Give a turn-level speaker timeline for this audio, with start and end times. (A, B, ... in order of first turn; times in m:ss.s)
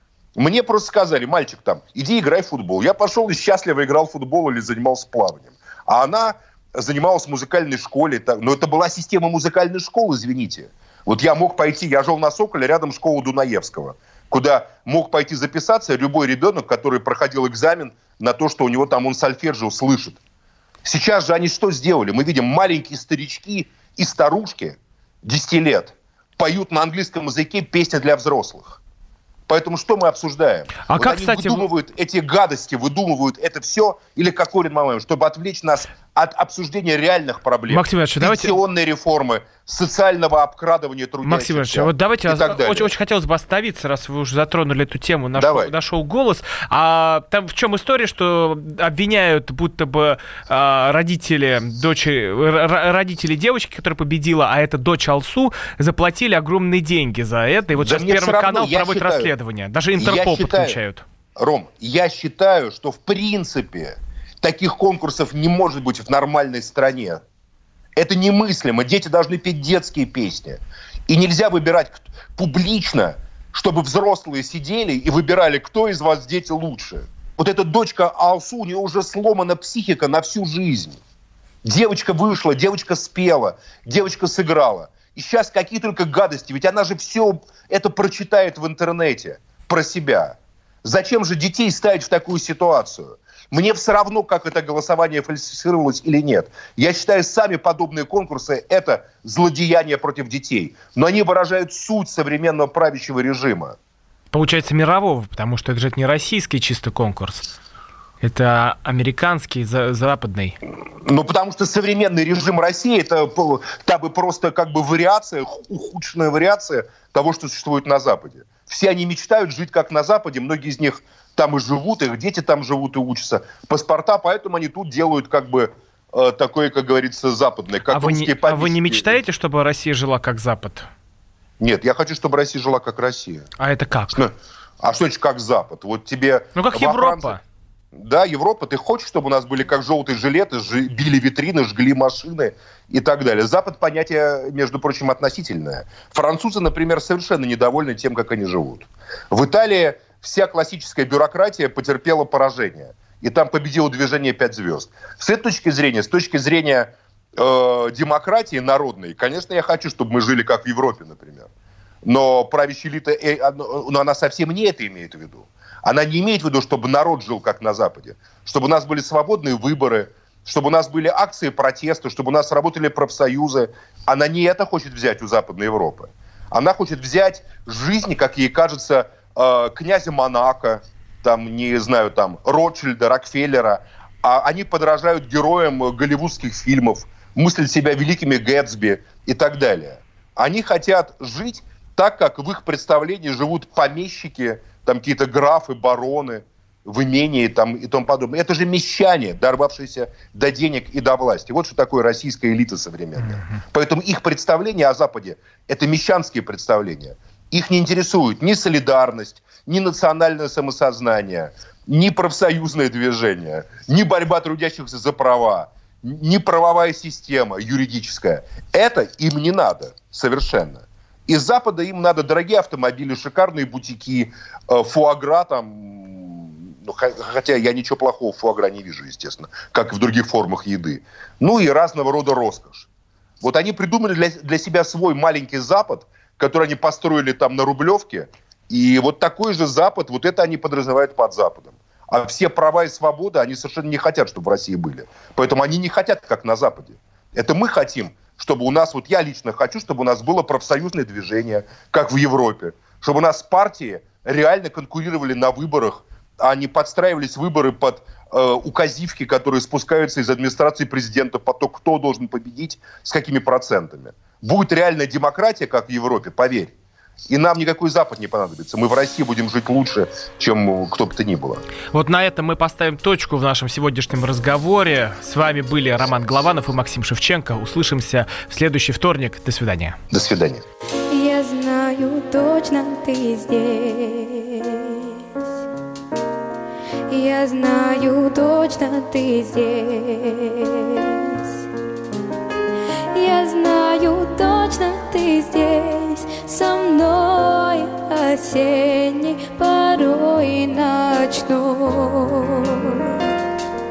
0:00.4-0:20.2 A
0:20.8-0:28.8 A
0:29.5-0:42.9 A
0:30.9-0:31.7 B
0:37.7-0:38.6 B
0:41.2-1:01.0 B
0:45.3-0:45.7 A
0:57.8-0:59.3 A
1:00.0-1:00.8 A
1:01.4-1:07.2 A
1:08.0-1:21.0 A
1:21.6-1:43.8 A
1:44.3-1:47.5 B
1:48.2-1:50.6 B
1:51.0-2:09.2 A
2:07.9-2:10.9 B
2:11.6-2:13.5 A
2:13.6-2:14.2 B
2:14.2-2:17.4 A
2:16.6-2:17.4 B
2:17.9-2:41.5 A
2:42.0-3:52.9 A
3:23.2-3:23.6 B
3:53.4-4:26.7 A
4:27.3-4:31.6 A
4:31.9-4:40.0 B
4:40.1-4:40.6 A
4:41.1-4:45.1 C
4:47.1-4:51.5 C
4:53.1-5:03.0 C